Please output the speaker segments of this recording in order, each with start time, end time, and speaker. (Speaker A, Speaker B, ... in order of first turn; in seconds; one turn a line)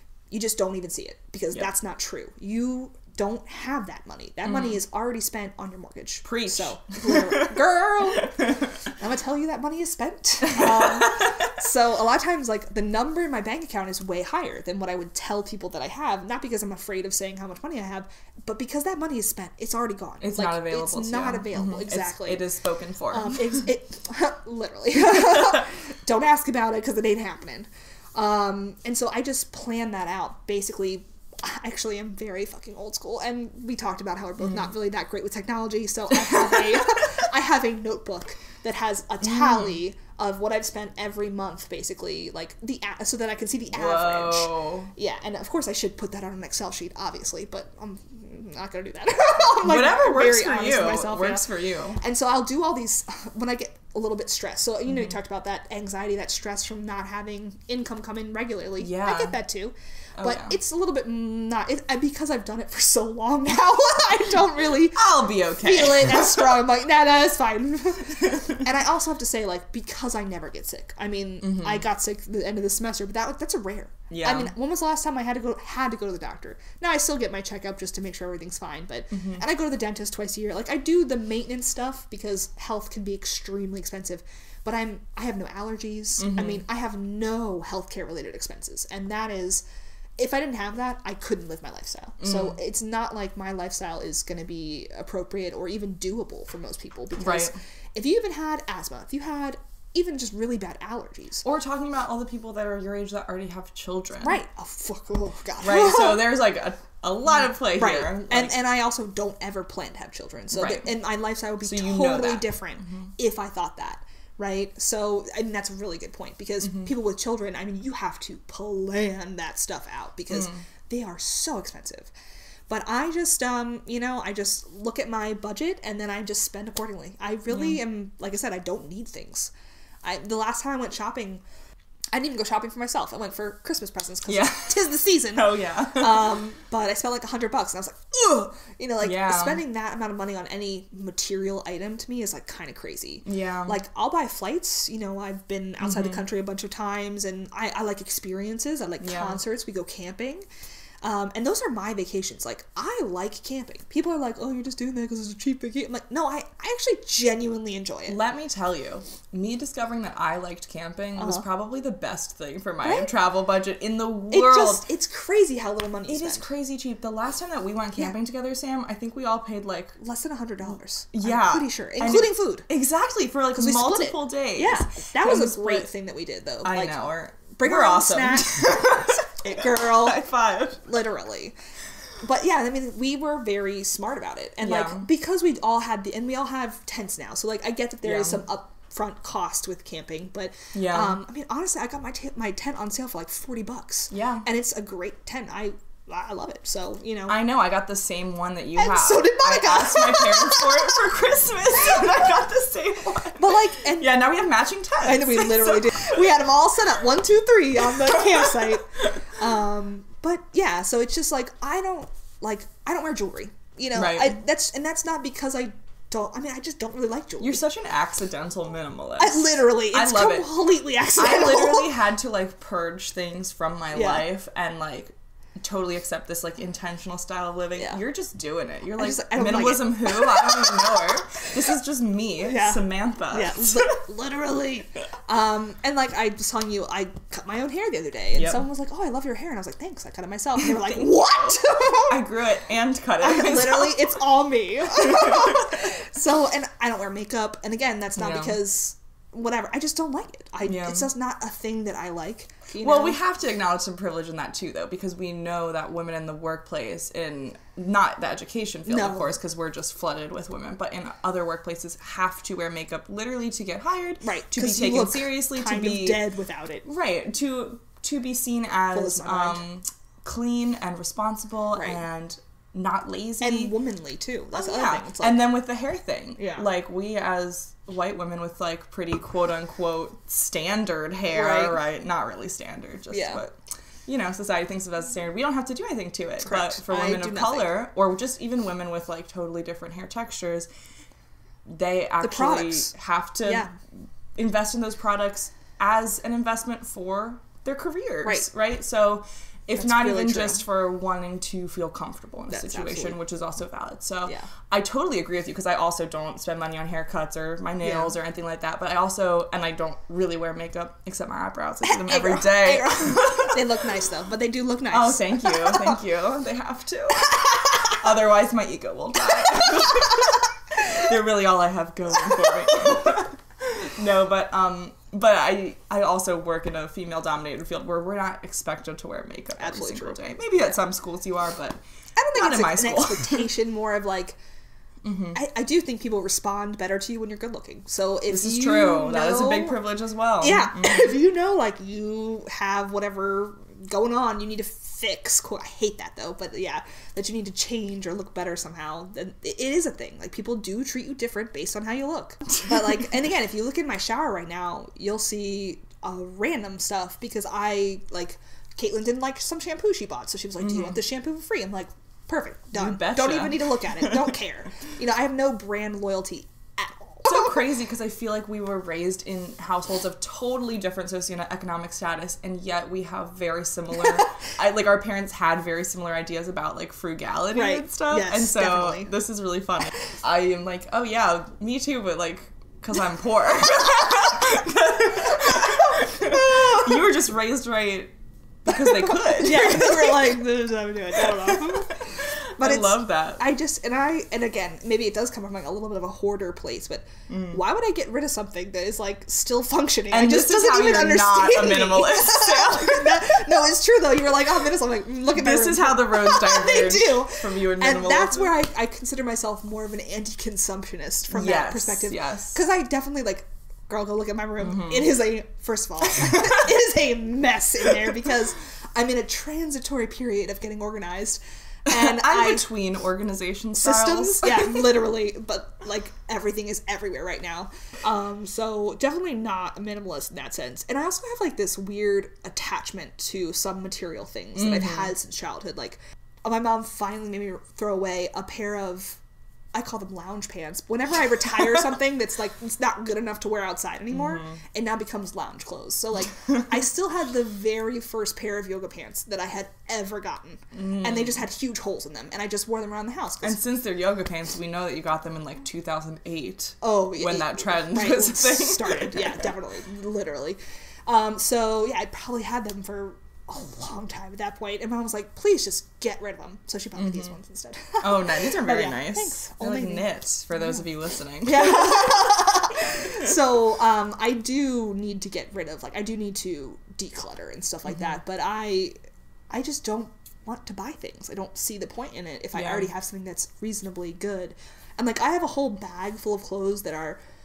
Speaker A: 0.3-22.4
Speaker B: 4.5-4.8
Speaker B: 6.2-7.6
Speaker B: 8.1-8.6
Speaker B: 10.5-11.4
Speaker B: 20.2-23.6
Speaker A: 23.1-89.6
Speaker B: 34.4-34.7
Speaker B: 39.2-39.8
Speaker B: 43.7-44.9
Speaker B: 49.6-52.0
Speaker B: 58.8-59.4
Speaker B: 60.2-60.5
Speaker B: 64.9-66.6
Speaker B: 68.2-68.5
Speaker B: 71.4-71.8
Speaker B: 74.1-74.5
Speaker B: 79.1-79.4
Speaker B: 86.2-86.6
Speaker A: 90.2-101.4
Speaker B: 92.2-92.5
Speaker B: 97.2-97.5
Speaker B: 101.4-104.4
Speaker A: 104.2-106.3
Speaker B: 105.6-108.5
Speaker A: 107.8-122.1
Speaker B: 110.5-110.9
Speaker B: 111.6-113.1
Speaker B: 116.6-116.9
Speaker B: 120.3-120.6
Speaker A: 122.7-129.5
Speaker B: 127.5-127.8
Speaker A: 130.0-131.4
Speaker A: 132.1-150.4
Speaker B: 134.3-136.4
Speaker B: 139.0-139.6
Speaker B: 143.2-143.8
Speaker B: 145.8-146.2
Speaker B: 149.0-149.4
Speaker A: 151.0-158.2
Speaker B: 158.1-164.8
Speaker A: 161.2-161.4
Speaker A: 162.8-163.1
Speaker A: 164.3-166.4
Speaker B: 166.1-170.0
Speaker A: 170.0-172.7
Speaker B: 171.1-175.9
Speaker A: 173.6-177.0
Speaker B: 176.6-180.8
Speaker A: 177.5-180.2
Speaker A: 180.8-181.5
Speaker A: 182.2-197.4
Speaker B: 184.6-185.1
Speaker B: 188.0-188.4
Speaker B: 190.7-191.2
Speaker B: 194.1-194.5
Speaker B: 197.3-206.3
Speaker A: 198.8-201.0
Speaker A: 201.8-202.1
Speaker A: 203.3-204.3
Speaker A: 205.0-217.6
Speaker B: 208.1-208.5
Speaker B: 213.9-214.4
Speaker B: 217.4-220.6
Speaker A: 219.2-221.9
Speaker B: 221.2-234.0
Speaker A: 223.9-224.3
Speaker A: 229.0-231.4
Speaker A: 232.4-242.2
Speaker B: 238.3-238.6
Speaker B: 242.0-244.1
Speaker A: 243.2-253.2
Speaker B: 245.1-245.6
Speaker B: 248.2-248.6
Speaker B: 250.6-251.1
Speaker B: 252.8-266.2
Speaker A: 258.9-259.4
Speaker A: 264.2-266.8
Speaker B: 266.8-273.7
Speaker A: 268.9-269.6
Speaker A: 271.8-272.0
Speaker A: 273.4-275.5
Speaker B: 274.5-290.7
Speaker A: 276.4-276.7
Speaker A: 281.3-281.8
Speaker A: 283.1-283.4
Speaker A: 286.4-287.7
Speaker B: 291.7-313.6
Speaker A: 292.2-293.7
Speaker A: 299.8-300.6
Speaker A: 302.5-303.2
Speaker A: 304.2-304.5
Speaker A: 307.8-308.1
Speaker A: 311.8-316.0
Speaker B: 314.9-331.8
Speaker A: 329.6-330.2
Speaker A: 332.1-334.4
Speaker B: 332.3-333.5
Speaker B: 335.0-335.4
Speaker A: 335.3-339.8
Speaker B: 338.3-341.2
Speaker A: 340.4-367.6
Speaker B: 360.6-361.0
Speaker B: 362.7-364.3
Speaker B: 367.2-388.1
Speaker A: 377.5-379.1
Speaker A: 385.5-387.1
Speaker B: 388.6-390.4
Speaker A: 388.7-422.7
Speaker B: 391.1-393.4
Speaker B: 397.3-397.6
Speaker B: 400.1-403.2
Speaker B: 405.3-408.5
Speaker B: 411.3-412.6
Speaker B: 414.6-415.1
Speaker B: 416.1-416.6
Speaker B: 421.9-424.8
Speaker A: 423.7-439.2
Speaker B: 434.6-435.1
Speaker A: 439.7-453.6
Speaker B: 444.1-444.6
Speaker B: 450.7-451.4
Speaker B: 453.4-459.4
Speaker A: 456.8-470.9
Speaker B: 467.0-467.3
Speaker B: 468.0-472.5
Speaker A: 471.4-478.9
Speaker A: 479.5-487.2
Speaker B: 482.5-482.9